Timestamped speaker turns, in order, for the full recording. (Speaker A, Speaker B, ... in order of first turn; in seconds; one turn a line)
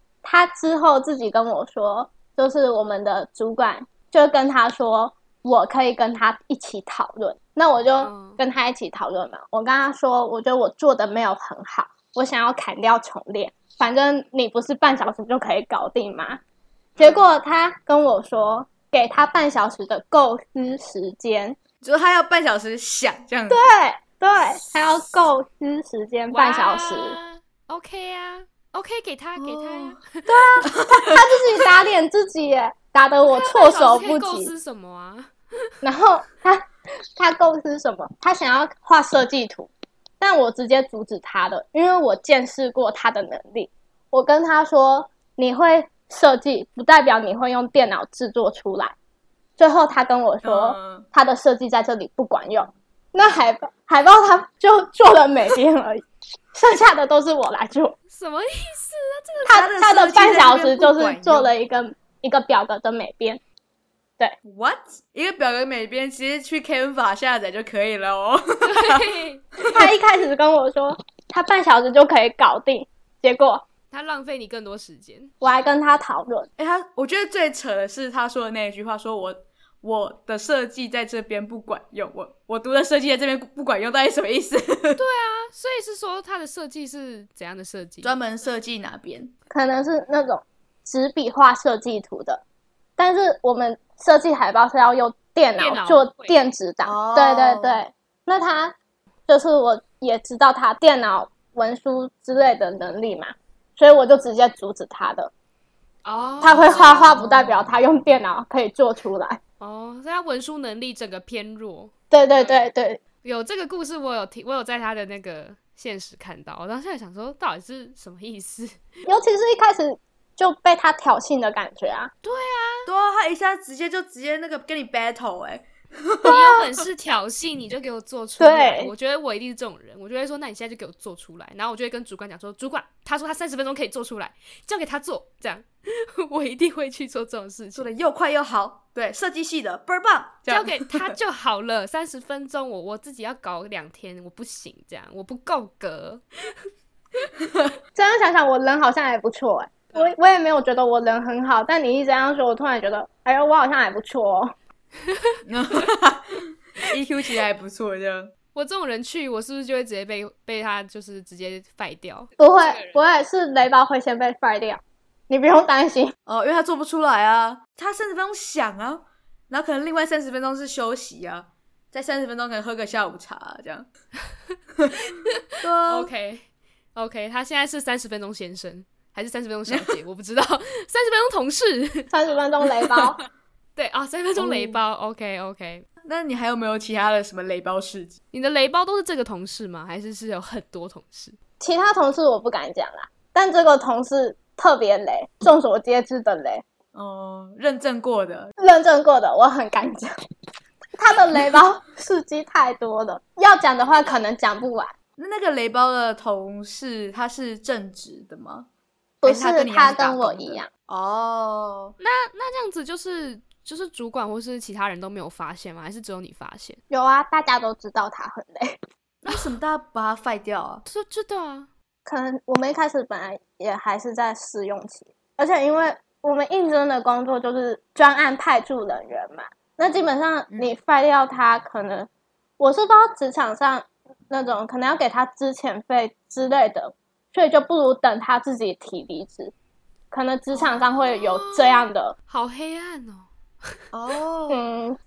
Speaker A: 0.2-16.4
Speaker B: 8.0-8.4
Speaker A: 17.0-21.6
Speaker C: 21.8-23.7
Speaker A: 23.5-27.2
Speaker B: 26.3-30.6
Speaker C: 29.4-30.0
Speaker A: 30.3-34.5
Speaker C: 30.7-31.2
Speaker B: 33.3-35.3
Speaker A: 35.8-49.0
Speaker A: 49.6-58.0
Speaker C: 50.4-51.1
Speaker B: 58.1-59.7
Speaker A: 59.5-63.4
Speaker C: 59.5-61.5
Speaker C: 64.5-69.1
Speaker B: 68.6-69.5
Speaker A: 69.7-73.6
Speaker B: 73.9-75.3
Speaker A: 75.4-76.5
Speaker C: 76.6-85.0
Speaker B: 85.0-88.2
Speaker C: 88.0-89.3
Speaker A: 89.5-92.4
Speaker A: 93.0-98.8
Speaker B: 95.6-96.3
Speaker C: 96.8-97.8
Speaker A: 99.3-105.3
Speaker B: 106.0-107.3
Speaker A: 106.4-109.4
Speaker B: 109.6-111.9
Speaker A: 112.1-113.0
Speaker B: 113.2-118.8
Speaker A: 119.1-122.1
Speaker B: 122.2-122.9
Speaker C: 122.9-126.8
Speaker A: 126.2-126.5
Speaker B: 126.3-137.9
Speaker A: 128.4-128.9
Speaker C: 137.7-141.2
Speaker B: 140.5-146.5
Speaker A: 147.9-154.5
Speaker C: 155.5-158.3
Speaker B: 158.6-162.3
Speaker A: 162.4-166.1
Speaker C: 166.3-173.9
Speaker C: 175.6-176.1
Speaker B: 175.9-182.1
Speaker C: 179.7-179.9
Speaker A: 182.1-183.2
Speaker B: 183.8-185.9
Speaker C: 184.4-184.8
Speaker C: 186.0-188.2
Speaker B: 188.3-191.4
Speaker A: 191.6-196.6
Speaker C: 196.9-198.5
Speaker A: 198.6-200.1
Speaker A: 201.0-204.9
Speaker C: 205.2-208.7
Speaker A: 209.2-210.7
Speaker C: 209.2-212.0
Speaker B: 212.0-216.8
Speaker A: 216.9-218.8
Speaker C: 219.2-220.8
Speaker B: 220.9-221.7
Speaker A: 222.1-239.5
Speaker A: 240.1-242.1
Speaker B: 240.6-243.8
Speaker C: 243.9-244.6
Speaker A: 244.5-245.0